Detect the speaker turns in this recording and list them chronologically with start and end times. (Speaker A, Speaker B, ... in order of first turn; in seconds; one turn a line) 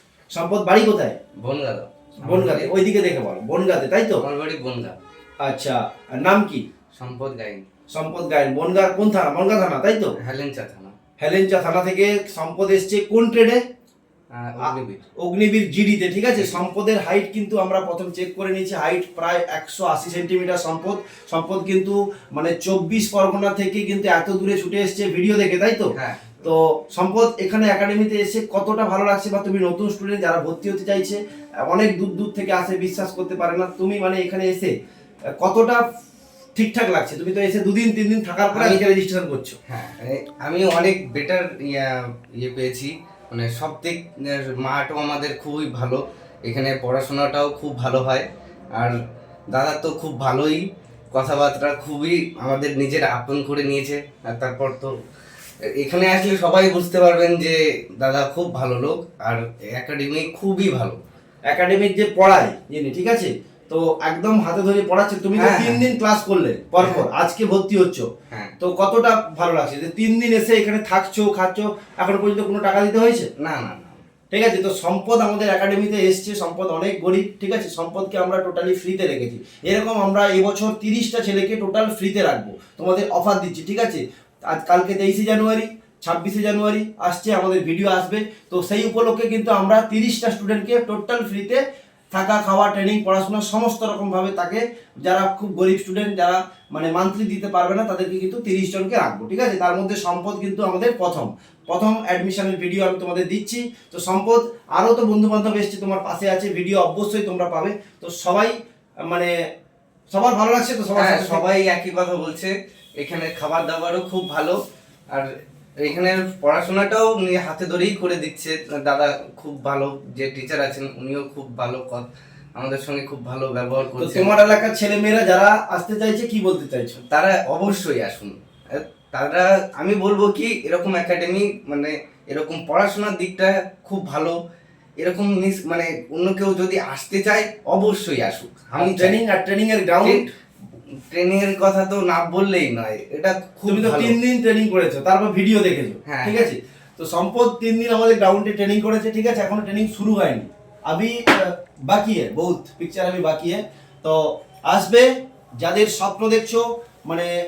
Speaker A: 0.3-1.2
Speaker B: 1.4-2.7
Speaker A: 2.2-4.2
Speaker B: 4.2-5.0
Speaker A: 5.4-6.6
Speaker B: 7.0-7.6
Speaker A: 7.9-10.1
Speaker B: 10.2-10.9
Speaker A: 11.2-13.6
Speaker B: 14.3-15.1
Speaker A: 14.6-25.9
Speaker B: 25.9-26.3
Speaker A: 26.4-34.7
Speaker A: 35.4-35.8
Speaker A: 36.5-39.6
Speaker B: 38.5-38.8
Speaker B: 39.6-49.0
Speaker B: 49.5-55.0
Speaker B: 55.8-61.0
Speaker A: 61.5-68.1
Speaker B: 65.3-65.8
Speaker B: 66.8-67.0
Speaker B: 68.3-68.5
Speaker A: 68.6-73.3
Speaker B: 73.4-74.0
Speaker A: 74.3-91.6
Speaker A: 92.1-108.5
Speaker A: 109.0-109.3
Speaker A: 110.1-111.5
Speaker B: 111.0-114.6
Speaker B: 115.1-124.3
Speaker A: 124.0-127.0
Speaker B: 127.1-134.3
Speaker B: 135.0-139.2
Speaker A: 138.8-140.2
Speaker B: 140.0-140.3
Speaker B: 141.1-144.2
Speaker A: 143.7-157.3
Speaker B: 146.0-146.5